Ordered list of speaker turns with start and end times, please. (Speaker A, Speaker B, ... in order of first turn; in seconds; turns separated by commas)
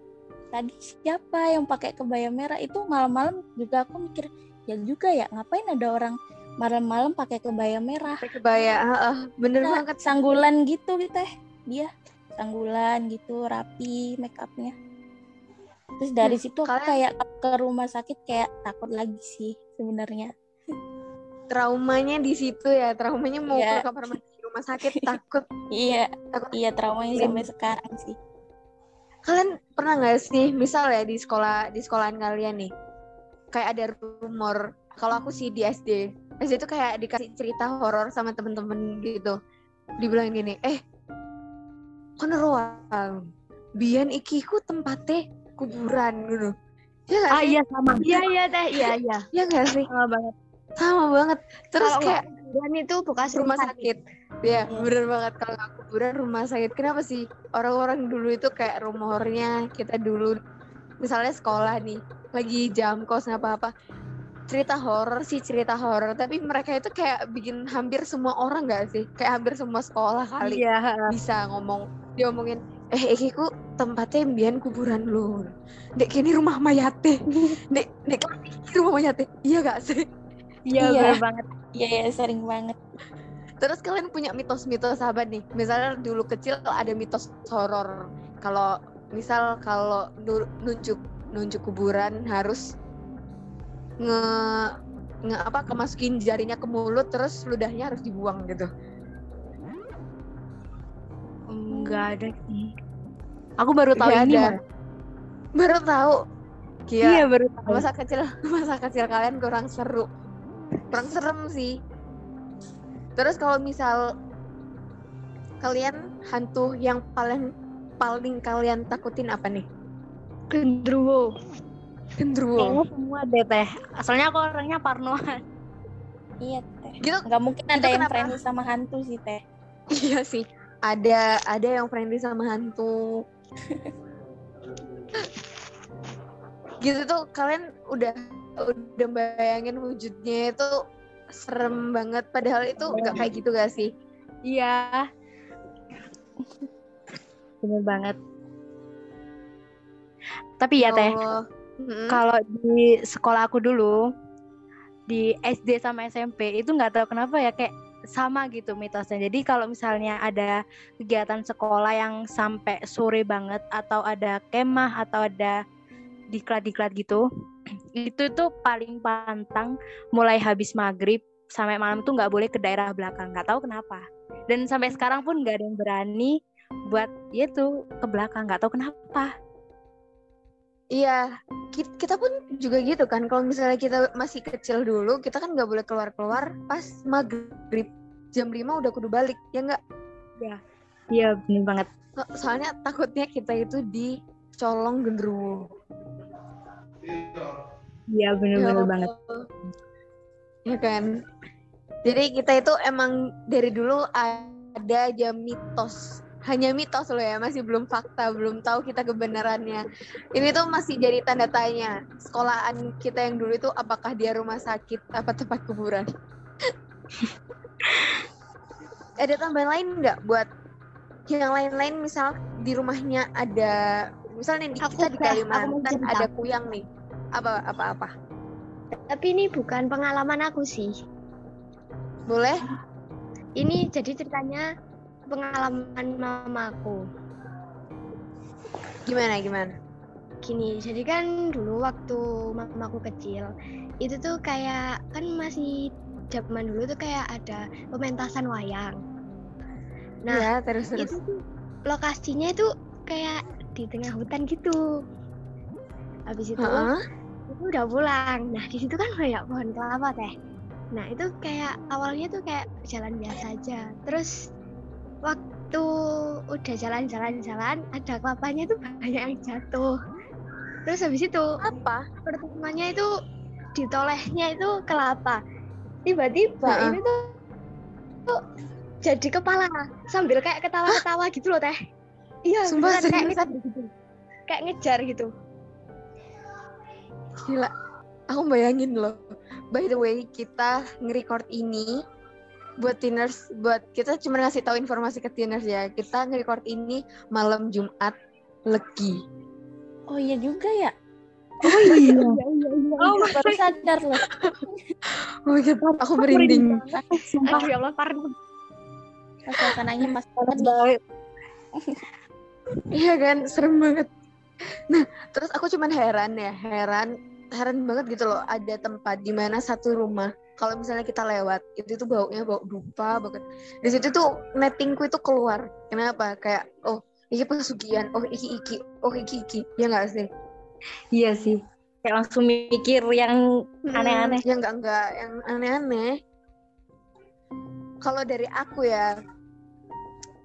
Speaker A: 0.5-8.2, Speaker B: 8.2-10.0, Speaker A: 9.6-14.8, Speaker A: 16.0-20.3, Speaker B: 16.2-17.0, Speaker B: 21.5-25.4, Speaker A: 23.5-23.9, Speaker A: 25.7-28.1, Speaker B: 27.2-27.4, Speaker B: 29.3-32.7, Speaker B: 33.5-39.4, Speaker B: 40.0-40.8, Speaker B: 42.2-43.2, Speaker B: 43.8-46.5, Speaker B: 47.1-47.6, Speaker C: 47.3-48.2, Speaker D: 48.0-49.0, Speaker B: 49.3-49.9, Speaker C: 49.9-50.3, Speaker B: 50.8-52.2, Speaker D: 51.8-53.9, Speaker B: 53.3-60.4, Speaker B: 61.0-63.7, Speaker B: 64.5-77.1, Speaker C: 70.4-71.0, Speaker B: 77.7-80.0, Speaker C: 80.7-81.5, Speaker A: 80.8-81.2, Speaker A: 81.8-82.8, Speaker B: 83.6-92.7, Speaker B: 94.0-94.7, Speaker B: 95.2-98.7, Speaker C: 101.5-102.7, Speaker A: 101.7-102.1, Speaker C: 103.6-104.5, Speaker B: 104.0-104.5, Speaker B: 105.6-106.2, Speaker B: 106.9-110.1, Speaker C: 107.0-107.8, Speaker B: 110.9-111.7, Speaker B: 113.2-114.0, Speaker B: 115.6-117.5, Speaker B: 118.0-119.6, Speaker D: 120.5-121.3, Speaker B: 122.2-122.8, Speaker C: 122.6-125.3, Speaker A: 126.4-129.4, Speaker B: 127.0-128.3, Speaker B: 129.9-132.9, Speaker B: 136.8-140.7, Speaker B: 141.4-143.9, Speaker C: 142.9-143.2, Speaker C: 144.5-145.0, Speaker C: 147.6-148.2, Speaker C: 150.6-151.1, Speaker B: 150.8-152.2, Speaker C: 152.1-154.0, Speaker C: 155.1-165.6, Speaker C: 166.3-167.2, Speaker C: 168.0-176.4, Speaker C: 176.9-179.3, Speaker B: 180.9-181.2, Speaker B: 181.8-189.8, Speaker C: 191.1-191.9, Speaker B: 192.2-195.6, Speaker C: 198.1-199.1, Speaker B: 198.5-199.3, Speaker B: 200.7-201.1, Speaker B: 202.0-209.8, Speaker B: 210.3-216.1, Speaker B: 219.2-220.5, Speaker B: 221.3-223.8, Speaker B: 224.3-226.8, Speaker D: 224.8-226.3, Speaker B: 227.4-228.1, Speaker D: 229.1-230.9, Speaker B: 232.3-232.6, Speaker D: 233.6-234.6, Speaker D: 235.3-237.0, Speaker B: 239.1-239.7, Speaker D: 240.4-243.5, Speaker D: 244.0-245.8, Speaker D: 246.3-249.0, Speaker D: 250.2-254.8, Speaker B: 250.3-251.1, Speaker D: 256.3-256.9, Speaker B: 256.6-256.9, Speaker D: 257.5-260.3, Speaker D: 260.9-264.3, Speaker D: 265.2-265.9, Speaker D: 266.5-269.9, Speaker D: 270.9-271.5, Speaker B: 271.6-272.1, Speaker D: 272.2-273.1, Speaker D: 273.8-275.4, Speaker D: 276.1-277.3, Speaker B: 276.6-277.0, Speaker D: 279.0-281.8, Speaker D: 282.5-283.9, Speaker B: 282.6-283.5, Speaker D: 284.5-285.3, Speaker B: 287.4-287.7, Speaker B: 288.3-289.2, Speaker B: 289.7-291.9, Speaker B: 292.8-298.1, Speaker B: 298.7-299.1, Speaker A: 300.1-300.9, Speaker C: 301.6-303.4, Speaker D: 302.0-302.4, Speaker D: 303.0-303.4, Speaker A: 303.2-304.2, Speaker B: 305.5-306.8, Speaker C: 306.3-307.7, Speaker D: 307.4-308.3, Speaker A: 309.5-310.8, Speaker C: 310.5-311.0, Speaker B: 312.9-314.1, Speaker B: 314.9-330.2, Speaker C: 331.1-333.4, Speaker B: 333.9-336.1, Speaker C: 333.9-334.4, Speaker B: 338.0-339.1